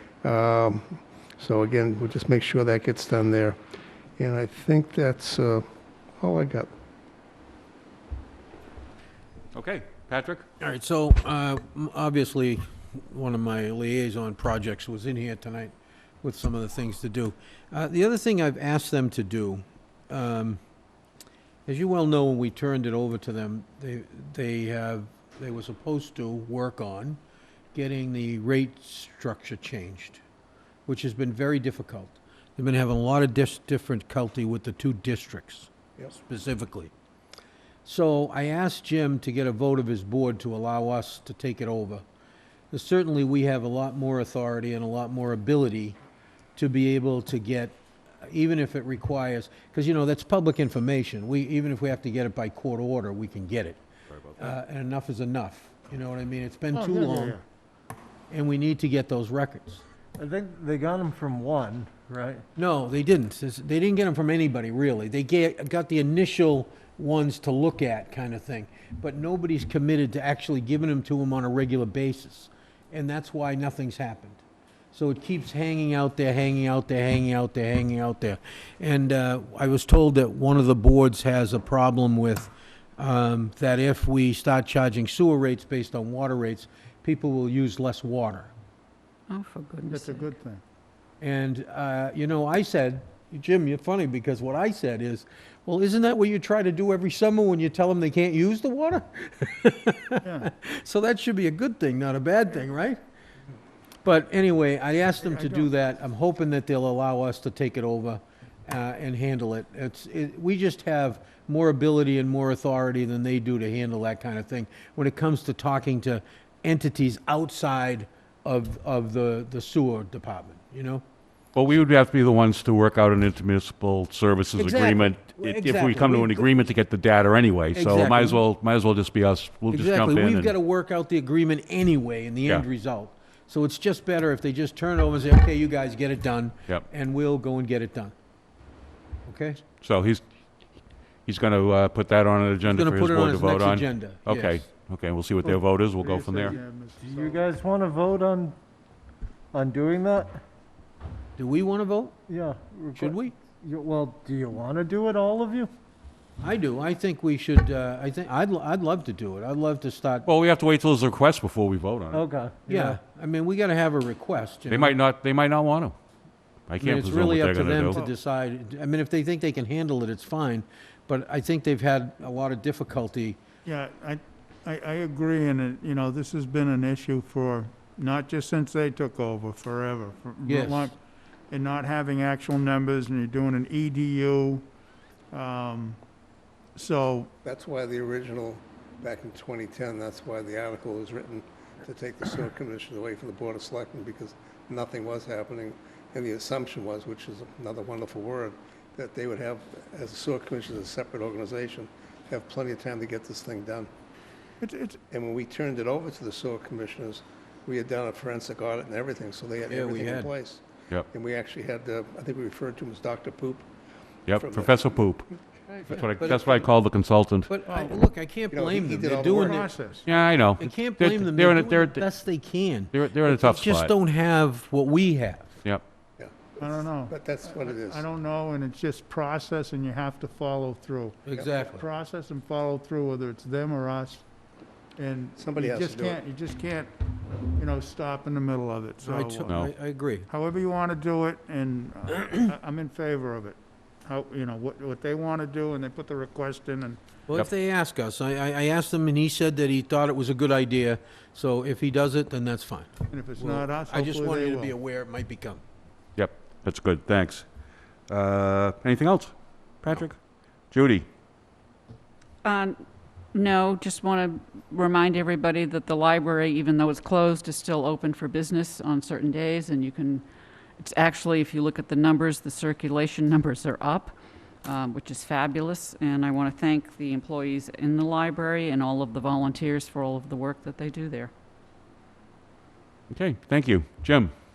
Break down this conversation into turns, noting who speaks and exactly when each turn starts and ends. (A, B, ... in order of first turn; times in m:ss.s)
0:00.2-0:03.6 A
0:04.2-0:05.6 A
0:06.2-0:06.7 A
0:09.5-0:10.5 B
0:10.6-0:20.6 C
0:21.7-0:27.2 C
0:27.7-0:30.2 C
0:30.9-0:36.9 C
0:37.8-0:42.0 C
0:42.7-0:46.0 C
0:46.6-0:53.8 C
0:54.2-0:54.5 B
0:54.4-0:57.4 C
0:56.7-0:57.4 D
0:58.3-0:59.8 C
1:00.2-1:02.4 E
1:02.6-1:14.4 C
1:14.9-1:28.5 C
1:29.3-1:30.3 F
1:29.9-1:30.6 D
1:31.2-1:43.0 C
1:44.0-2:01.0 C
1:45.2-1:45.7 D
2:01.6-2:10.5 B
2:04.6-2:06.5 C
2:07.7-2:08.4 C
2:09.7-2:18.1 C
2:19.3-2:19.6 C
2:19.8-2:20.2 B
2:21.3-2:26.6 B
2:22.6-2:24.6 C
2:26.0-2:27.4 D
2:26.4-2:28.6 E
2:29.5-2:30.4 E
2:31.4-2:32.2 C
2:32.3-2:35.7 E
2:33.0-2:33.4 C
2:36.4-2:40.3 C
2:40.3-2:42.2 B
2:42.1-2:43.0 E
2:42.7-2:44.9 C
2:44.7-2:46.0 B
2:46.7-2:48.0 B
2:46.8-2:53.4 C
2:53.6-3:01.0 D
3:00.5-3:00.9 C
3:01.5-3:04.7 D
3:05.3-3:06.0 D
3:06.8-3:07.3 D
3:07.4-3:23.9 A
3:24.6-3:25.0 D
3:25.1-3:33.7 A
3:29.7-3:30.3 C
3:34.3-3:35.3 B
3:34.3-3:35.0 A
3:35.8-3:37.5 B
3:35.8-3:36.6 C
3:37.5-3:39.7 C
3:37.7-3:38.0 D
3:38.5-3:39.7 A
3:39.2-3:40.1 D
3:40.1-3:42.1 B
3:40.6-3:45.6 C
3:42.9-3:43.9 B
3:46.2-3:48.0 A
3:46.6-3:54.2 D
3:51.3-3:51.8 C
3:55.0-3:56.9 D
3:55.4-3:56.2 A
3:57.6-3:59.4 D
3:59.0-4:00.3 C
3:59.4-3:59.7 B
4:00.3-4:07.0 D
4:07.3-4:15.6 C
4:13.1-4:14.7 D
4:16.2-4:17.5 B
4:18.1-4:20.2 B
4:20.7-4:21.1 B
4:22.4-4:22.8 F
4:23.3-4:30.2 F
4:30.8-4:41.3 F
4:43.1-4:44.3 B